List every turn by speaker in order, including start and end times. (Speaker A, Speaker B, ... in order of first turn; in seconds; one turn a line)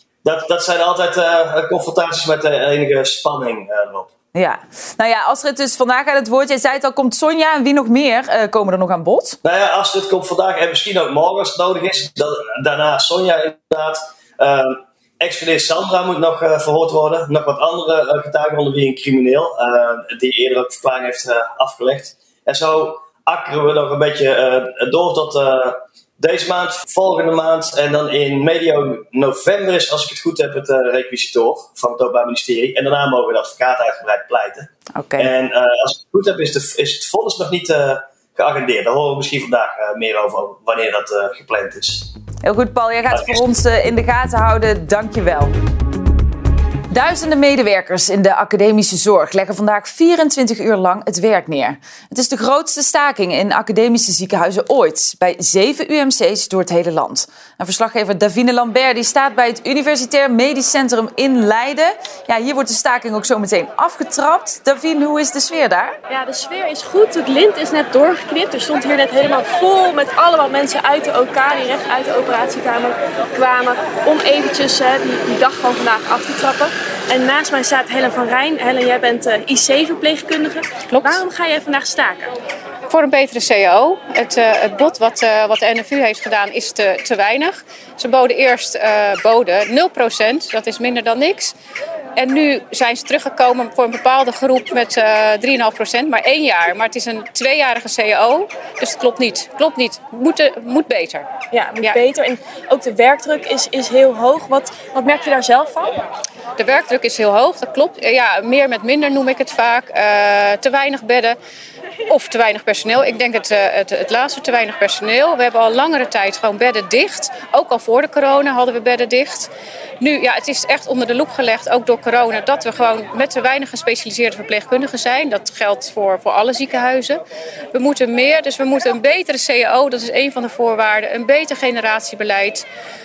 Speaker A: 0.2-4.1
Speaker B: 4.3-9.4
Speaker A: 9.4-42.1
Speaker B: 34.9-35.3
Speaker B: 42.4-45.5
Speaker A: 43.1-43.4
Speaker B: 46.9-66.0
Speaker C: 66.1-82.3
Speaker D: 80.9-81.2
Speaker D: 82.9-91.5
Speaker D: 92.2-101.3
Speaker C: 101.5-106.0
Speaker D: 106.6-111.4
Speaker D: 112.1-127.2
Speaker D: 127.7-132.7